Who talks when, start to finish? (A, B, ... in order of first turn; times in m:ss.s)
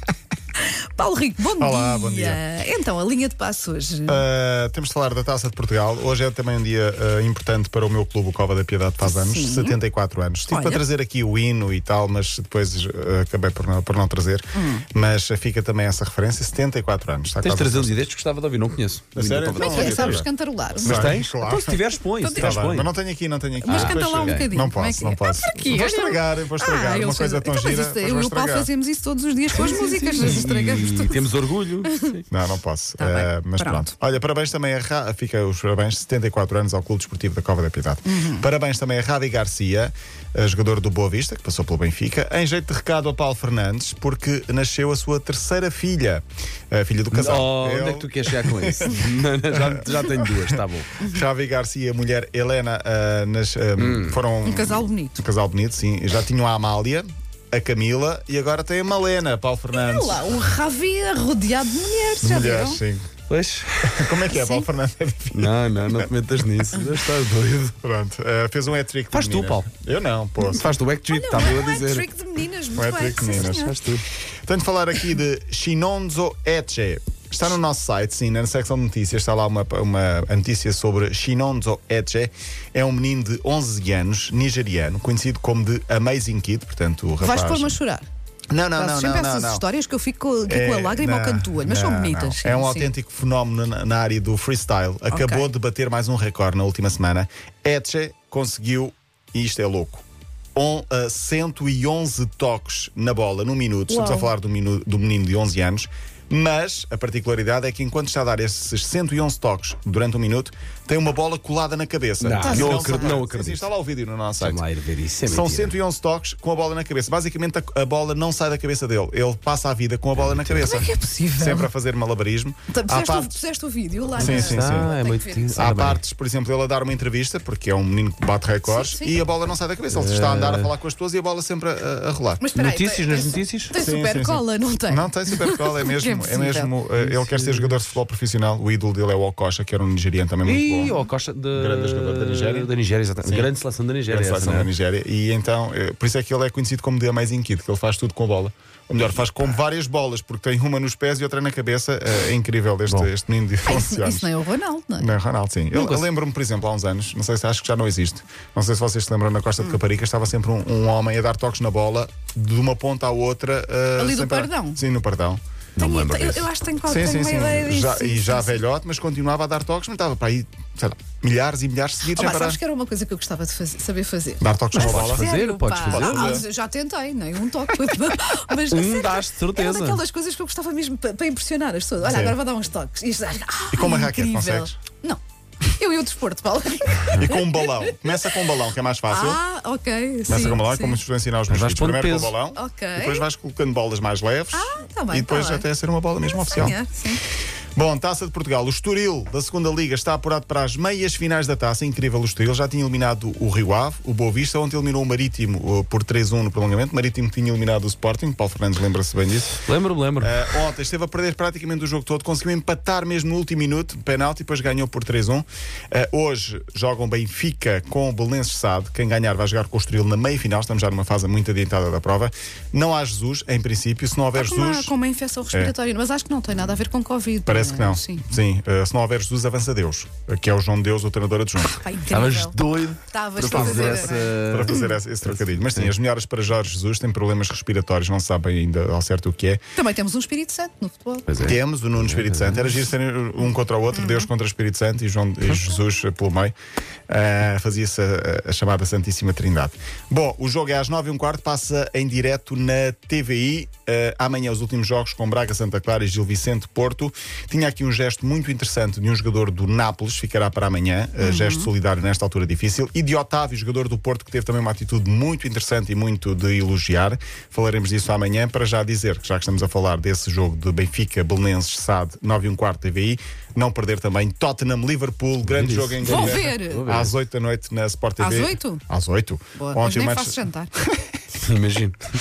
0:00.6-0:04.2 A
0:01.6-0:02.4 B
0:04.1-0:18.0 B
0:09.0-0:09.8 A
0:10.5-0:10.8 A
0:14.5-0:14.8 A
0:17.4-0:20.2 C
0:19.1-0:20.3 B
0:19.6-0:21.2 A
0:20.8-0:21.8 B
0:20.8-0:22.9 C
0:22.2-0:22.7 A
0:22.3-0:28.7 B
0:23.6-0:31.2 A
0:23.7-0:24.5 C
0:29.5-0:32.2 C
0:31.8-0:32.2 A
0:32.3-0:48.9 B
0:33.0-0:33.9 A
0:38.0-0:38.4 A
0:47.1-0:51.0 C
0:49.5-0:49.8 B
0:51.0-1:00.3 B
0:53.8-0:54.2 C
0:54.4-0:55.2 A
0:59.7-1:02.8 A
1:02.2-1:03.1 B
1:03.3-1:04.3 C
1:03.8-1:06.1 B
1:04.3-1:04.6 A
1:05.3-1:07.7 C
1:07.8-1:10.7 B
1:09.1-1:09.7 C
1:10.4-1:12.1 C
1:11.1-1:13.7 A
1:12.8-1:13.7 B
1:13.3-1:14.0 C
1:14.4-1:27.8 B
1:27.2-1:28.1 A
1:28.5-1:29.6 B
1:28.8-1:32.9 A
1:30.4-1:40.0 B
1:35.1-1:35.5 A
1:40.5-1:54.6 B
1:43.9-1:44.3 A
1:52.2-1:53.7 C
1:52.4-1:53.2 A
1:54.4-1:55.8 C
1:55.2-2:03.4 B
2:00.2-2:00.7 C
2:00.6-2:01.7 A
2:02.7-2:05.6 A
2:04.1-2:04.9 B
2:04.2-2:06.0 C
2:05.5-2:12.4 B
2:08.6-2:09.2 A
2:09.9-2:10.7 C
2:12.4-2:16.7 A
2:12.5-2:13.8 C
2:13.8-2:22.7 B
2:17.0-2:18.0 C
2:20.4-2:24.7 C
2:23.2-2:23.5 B
2:24.1-2:34.3 B
2:33.6-2:35.1 A
2:35.0-2:45.4 B
2:44.0-2:44.8 A
2:45.8-2:46.5 C
2:45.8-2:48.6 A
2:46.8-2:52.6 B
2:52.1-3:05.2 A
2:54.4-2:55.3 B
2:54.7-2:56.4 C
2:55.9-2:56.4 B
2:58.7-3:00.0 C
3:02.0-3:02.4 B
3:03.7-3:04.7 B
3:05.7-3:08.4 A
3:07.1-3:09.4 B
3:09.1-3:11.0 A
3:10.3-3:16.8 B
3:11.5-3:12.3 C
3:12.5-3:13.2 A
3:14.5-3:15.6 A
3:16.3-3:17.2 A
3:17.8-3:29.6 B
3:29.6-3:30.4 C
3:30.2-3:44.9 B
3:44.3-3:48.2 A
3:47.4-3:51.8 B
3:51.7-3:52.6 A
3:52.1-3:55.9 C
3:53.1-3:54.9 A
3:53.5-3:59.6 B
3:59.8-4:01.4 A
4:01.3-4:02.7 C
4:01.4-4:06.5 B
4:04.0-4:04.3 A
4:07.1-4:41.2 B
4:21.2-4:21.7 A
4:35.5-4:37.1 C
4:36.0-4:36.9 A
4:38.2-4:38.8 A
4:39.5-4:40.7 A
4:41.4-4:42.0 C